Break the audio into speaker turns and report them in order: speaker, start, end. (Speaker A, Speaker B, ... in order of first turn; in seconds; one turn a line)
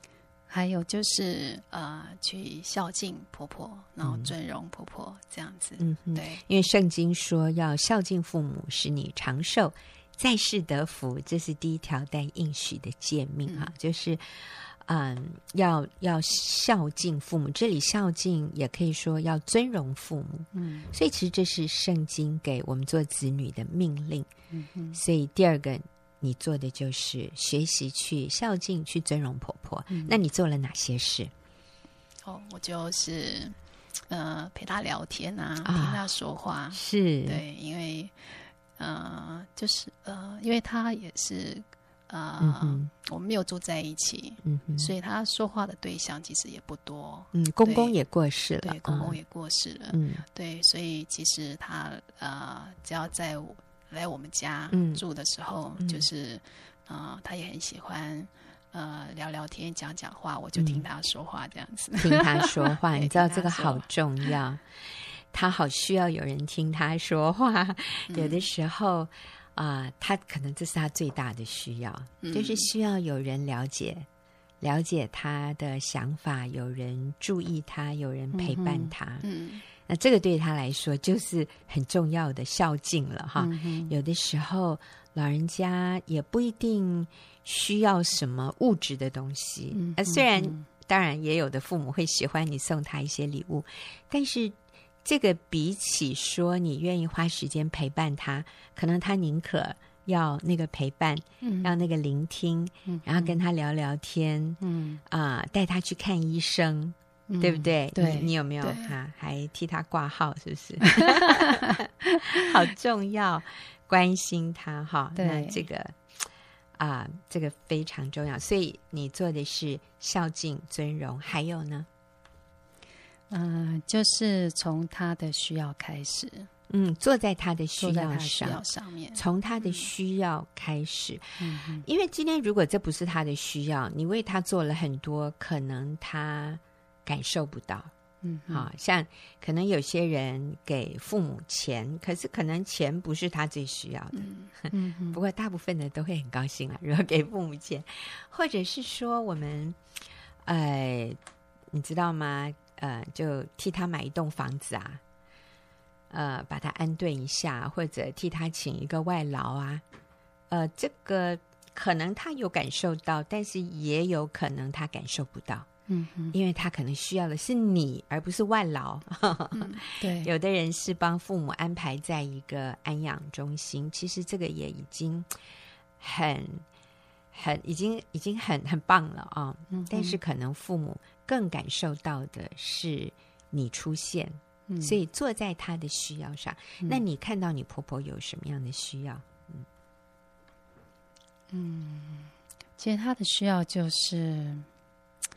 Speaker A: 0.5-6.4
Speaker B: 4.0-4.3
Speaker B: 5.8-24.3
Speaker A: 13.5-13.7
Speaker A: 20.5-20.9
Speaker A: 24.5-25.0
Speaker B: 24.9-31.3
Speaker A: 29.9-30.2
Speaker A: 32.2-33.5
Speaker A: 34.1-48.0
Speaker B: 35.6-36.1
Speaker B: 36.7-37.4
Speaker B: 42.4-42.9
Speaker B: 44.4-44.9
Speaker B: 47.3-49.2
Speaker A: 48.6-64.3
Speaker B: 49.9-50.2
Speaker B: 54.7-55.0
Speaker B: 55.8-56.0
Speaker B: 60.6-60.8
Speaker B: 62.0-74.1
Speaker A: 68.1-68.5
Speaker A: 72.2-72.7
Speaker B: 74.6-116.0
Speaker A: 78.3-79.6
Speaker A: 83.4-83.9
Speaker A: 89.7-90.6
Speaker A: 101.4-101.8
Speaker A: 102.8-103.4
Speaker A: 104.6-105.0
Speaker A: 107.3-108.9
Speaker A: 111.1-111.4
Speaker A: 115.2-115.6
Speaker B: 116.8-121.9
Speaker A: 123.3-126.5
Speaker B: 126.7-137.9
Speaker A: 127.8-129.9
Speaker A: 131.4-131.9
Speaker A: 138.2-138.7
Speaker B: 138.5-149.8
Speaker A: 144.1-145.2
Speaker B: 150.4-151.2
Speaker B: 151.7-155.0
Speaker B: 156.1-159.8
Speaker B: 160.5-165.7
Speaker A: 165.9-166.3
Speaker B: 166.3-175.3
Speaker A: 169.5-170.3
Speaker B: 176.0-176.7
Speaker B: 177.3-189.7
Speaker A: 179.7-180.2
Speaker A: 184.7-185.0
Speaker A: 191.5-194.7